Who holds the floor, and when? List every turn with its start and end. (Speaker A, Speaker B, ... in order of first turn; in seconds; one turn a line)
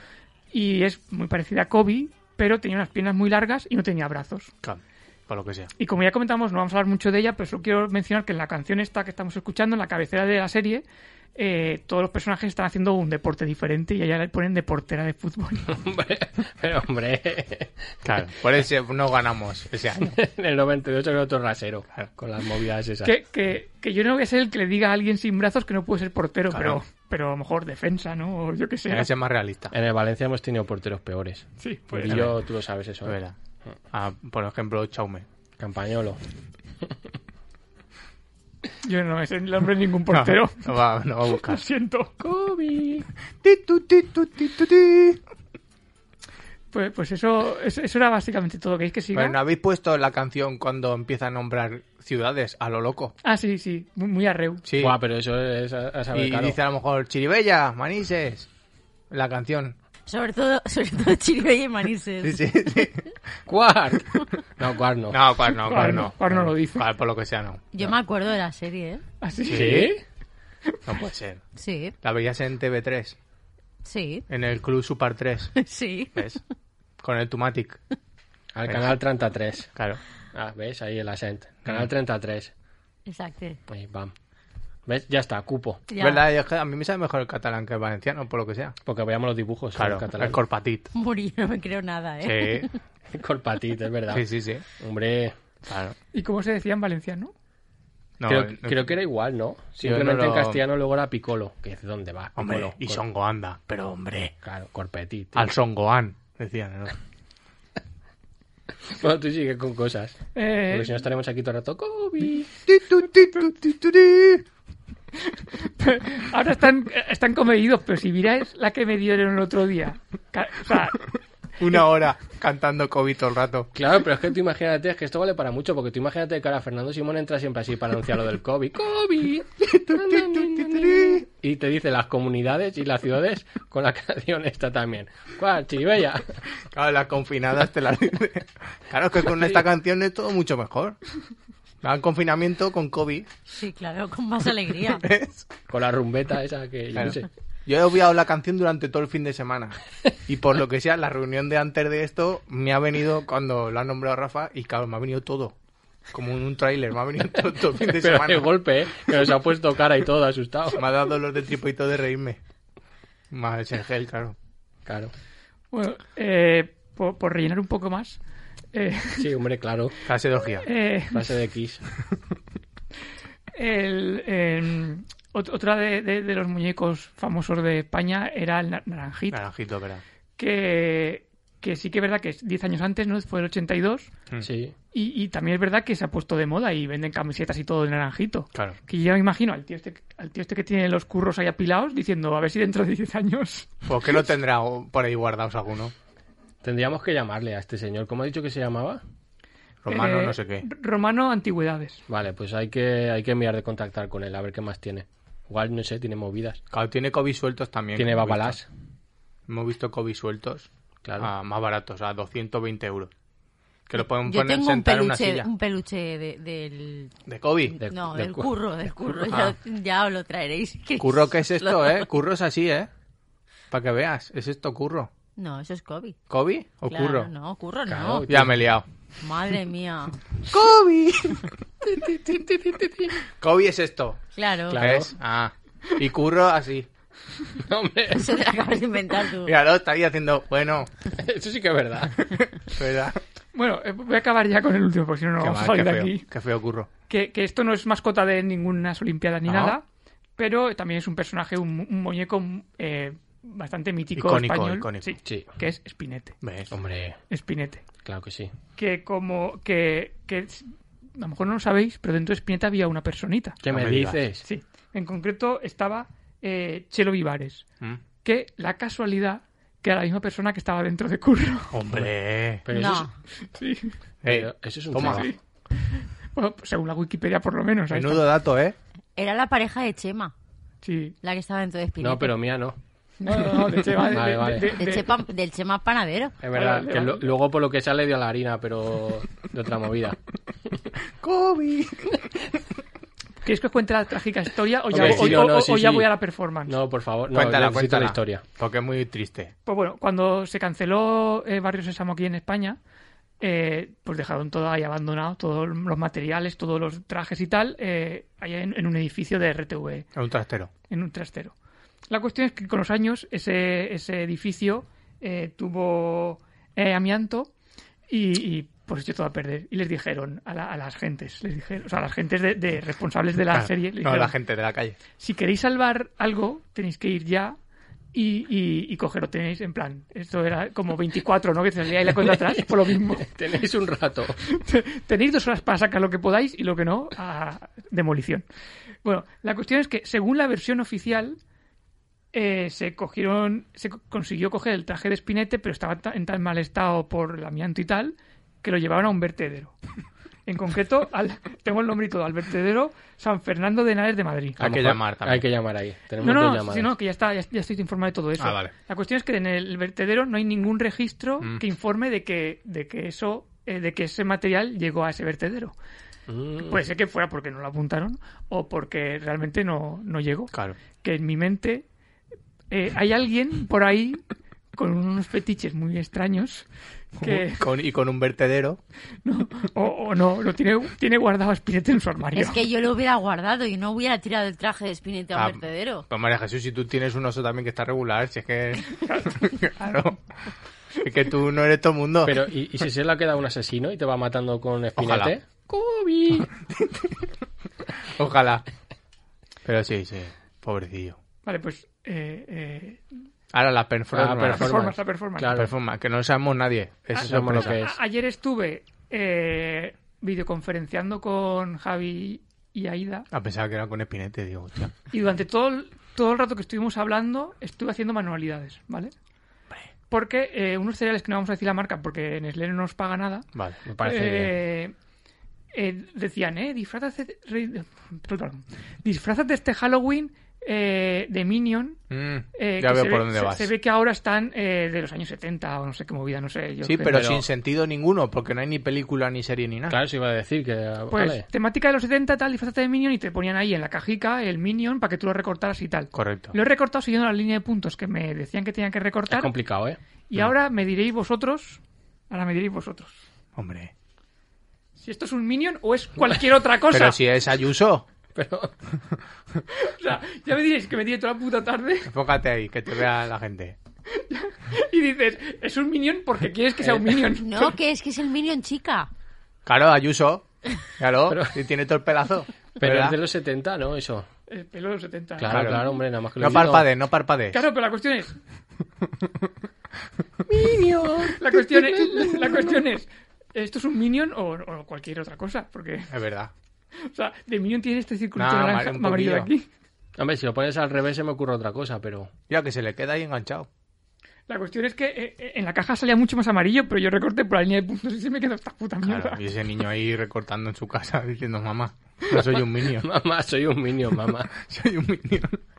Speaker A: 0.5-4.5
Speaker B: 4.6-5.7
Speaker A: 5.8-15.7
Speaker C: 15.7-17.9
Speaker B: 18.0-20.1
Speaker C: 20.0-23.1
Speaker A: 23.0-29.1
Speaker B: 26.5-26.8
Speaker B: 28.9-29.7
Speaker C: 29.7-33.2
Speaker A: 31.6-32.3
Speaker B: 32.0-32.4
Speaker B: 33.0-33.4
Speaker B: 33.9-35.3
Speaker C: 35.6-36.2
Speaker A: 38.8-40.7
Speaker B: 40.1-41.6
Speaker A: 41.4-42.1
Speaker C: 42.2-43.1
Speaker B: 43.4-45.2
Speaker A: 46.7-49.4
Speaker B: 49.1-53.1
Speaker A: 53.2-54.6
Speaker B: 54.6-55.0
Speaker C: 54.8-56.6
Speaker B: 56.1-58.5
Speaker B: 59.1-59.7
Speaker D: 60.0-62.4
Speaker B: 62.2-63.1
Speaker C: 63.5-66.5
Speaker B: 65.1-67.6
Speaker A: 65.7-66.8
Speaker D: 67.7-69.0
Speaker A: 69.2-69.9
Speaker B: 69.4-69.9
Speaker C: 69.5-70.0
Speaker B: 70.8-71.4
Speaker D: 71.5-71.9
Speaker B: 72.0-73.2
Speaker D: 73.8-74.2
Speaker B: 74.3-75.5
Speaker D: 75.5-76.4
Speaker B: 76.1-76.4
Speaker B: 77.0-77.8
Speaker C: 78.5-79.7
Speaker B: 78.7-79.0
Speaker B: 79.7-80.0
Speaker C: 80.3-82.5
Speaker D: 83.0-83.6
Speaker C: 83.7-84.1
Speaker C: 84.8-85.8
Speaker D: 85.9-86.2
Speaker B: 86.0-88.8
Speaker C: 88.8-90.4
Speaker B: 89.8-90.9
Speaker D: 90.9-92.8
Speaker B: 92.2-92.7
Speaker C: 93.1-94.2
Speaker B: 94.1-94.6
Speaker C: 94.8-95.3
Speaker B: 95.7-96.0
Speaker A: 96.1-97.3
Speaker B: 98.2-99.0
Speaker C: 98.2-103.0
Speaker B: 99.8-100.6
Speaker B: 102.3-104.3
Speaker C: 104.4-105.5
Speaker B: 105.3-107.0
Speaker C: 108.9-112.5
Speaker A: 110.3-111.0
Speaker B: 112.7-114.4
Speaker A: 115.3-121.1
Speaker B: 121.6-123.7
Speaker C: 123.7-136.4
Speaker B: 129.7-131.2
Speaker B: 136.7-141.0
Speaker B: 141.8-143.3
Speaker D: 143.5-145.0
Speaker B: 144.9-145.4
Speaker C: 145.7-147.3
Speaker B: 146.9-155.5
Speaker B: 156.1-158.5
Speaker C: 157.8-160.8
Speaker B: 160.7-162.4
Speaker B: 163.3-164.3
Speaker C: 164.8-165.1
Speaker A: 165.7-168.2
Speaker A: 168.7-169.3
Speaker C: 169.2-169.9
Speaker B: 170.0-170.7
Speaker A: 170.6-171.3
Speaker C: 171.1-171.8
Speaker A: 173.5-179.4
Speaker B: 179.3-180.0
Speaker A: 180.4-184.1
Speaker C: 184.4-184.7
Speaker A: 184.9-193.8
Speaker B: 193.8-195.9
Speaker C: 196.6-199.0
Speaker B: 199.8-200.7
Speaker A: 199.9-202.0
Speaker C: 202.1-206.6
Speaker B: 206.7-208.6
Speaker C: 207.9-208.7
Speaker B: 209.5-213.1
Speaker C: 211.0-211.3
Speaker B: 213.9-215.5
Speaker D: 214.2-217.1
Speaker B: 217.3-217.8
Speaker D: 217.7-222.1
Speaker C: 217.8-218.5
Speaker B: 219.3-219.6
Speaker B: 221.0-222.9
Speaker B: 223.7-225.1
Speaker D: 225.3-226.2
Speaker B: 226.3-227.3
Speaker D: 226.8-228.3
Speaker C: 227.9-228.7
Speaker B: 228.3-228.8
Speaker D: 229.2-230.2
Speaker B: 230.5-231.5
Speaker C: 231.8-233.2
Speaker B: 233.3-234.2
Speaker D: 234.3-234.9
Speaker C: 234.7-235.1
Speaker B: 234.7-236.9
Speaker C: 237.6-238.4
Speaker D: 238.1-239.6
Speaker B: 239.4-240.9
Speaker C: 241.2-242.3
Speaker B: 242.3-243.2
Speaker A: 243.5-246.2
Speaker B: 245.4-246.9
Speaker A: 247.1-249.8
Speaker B: 249.4-249.8
Speaker A: 250.4-256.4
Speaker B: 254.2-255.1
Speaker B: 256.4-256.7
Speaker C: 256.7-257.2
Speaker A: 257.3-257.8
Speaker C: 258.0-258.5
Speaker A: 258.8-263.6
Speaker C: 263.6-264.4
Speaker B: 263.7-264.2
Speaker A: 264.4-267.6
Speaker A: 268.2-271.8
Speaker B: 271.7-272.6
Speaker C: 272.6-273.1
Speaker D: 272.7-273.1
Speaker A: 273.5-273.9
Speaker B: 274.2-275.3
Speaker C: 274.2-275.4
Speaker A: 275.0-278.2
Speaker B: 277.9-278.8
Speaker D: 279.1-280.3
Speaker A: 280.8-281.1
Speaker D: 281.2-282.4
Speaker C: 282.0-282.8
Speaker A: 283.2-285.2
Speaker C: 284.0-284.7
Speaker D: 284.8-286.4
Speaker C: 286.4-290.2
Speaker A: 286.5-287.3
Speaker B: 291.2-292.2
Speaker A: 293.4-296.8
Speaker C: 294.9-296.1
Speaker B: 294.9-295.5
Speaker C: 296.6-298.4
Speaker B: 297.3-299.5
Speaker A: 299.6-302.8
Speaker A: 303.4-310.1
Speaker B: 310.1-310.7
Speaker A: 310.9-311.5
Speaker A: 312.1-317.5
Speaker A: 318.1-324.3
Speaker B: 323.5-325.0
Speaker A: 325.2-327.6
Speaker A: 328.1-333.3
Speaker C: 332.1-334.4
Speaker A: 334.5-338.4
Speaker A: 339.0-341.4
Speaker A: 342.3-349.7
Speaker A: 350.4-354.6
Speaker B: 354.6-355.4
Speaker C: 354.6-356.9
Speaker A: 356.2-365.7
Speaker B: 358.4-358.7
Speaker C: 366.3-366.8
Speaker A: 366.6-371.8
Speaker A: 372.7-374.2
Speaker A: 374.7-376.6
Speaker A: 377.2-377.6
Speaker B: 377.2-378.8
Speaker A: 379.2-382.6
Speaker D: 382.3-386.1
Speaker B: 385.3-390.2
Speaker A: 389.1-389.4
Speaker B: 391.0-392.4
Speaker C: 392.2-396.5
Speaker B: 395.0-395.3
Speaker B: 396.7-397.3
Speaker B: 398.1-398.6
Speaker B: 399.6-401.2
Speaker A: 401.4-403.0
Speaker B: 403.5-404.9
Speaker C: 404.1-405.7
Speaker A: 404.4-405.6
Speaker B: 405.5-407.8
Speaker C: 407.2-407.9
Speaker A: 407.2-413.2
Speaker B: 413.3-414.9
Speaker A: 415.1-419.1
Speaker A: 420.1-423.5
Speaker B: 423.5-423.8
Speaker C: 423.9-424.6
Speaker A: 424.0-424.9
Speaker A: 425.7-432.0
Speaker B: 432.1-433.7
Speaker A: 432.6-437.2
Speaker B: 436.8-440.0
Speaker C: 437.1-437.4
Speaker C: 439.9-441.4
Speaker A: 441.1-449.5
Speaker B: 446.1-446.6
Speaker C: 449.3-450.0
Speaker A: 450.3-453.2
Speaker B: 453.6-453.9
Speaker A: 455.0-457.2
Speaker B: 456.9-458.1
Speaker C: 458.3-458.7
Speaker A: 459.7-462.1
Speaker B: 462.1-463.8
Speaker A: 464.1-467.8
Speaker D: 467.4-469.1
Speaker B: 469.6-473.2
Speaker C: 471.3-471.6
Speaker C: 472.8-474.3
Speaker A: 474.5-475.8
Speaker C: 475.4-476.9
Speaker B: 475.5-475.8
Speaker B: 476.4-477.6
Speaker A: 477.5-478.4
Speaker C: 480.5-482.8
Speaker A: 481.4-486.1
Speaker B: 486.1-486.5
Speaker A: 487.0-489.7
Speaker B: 488.4-489.5
Speaker C: 490.2-492.3
Speaker B: 492.5-493.7
Speaker A: 494.5-499.4
Speaker B: 499.0-503.1
Speaker C: 502.3-504.5
Speaker B: 504.5-505.6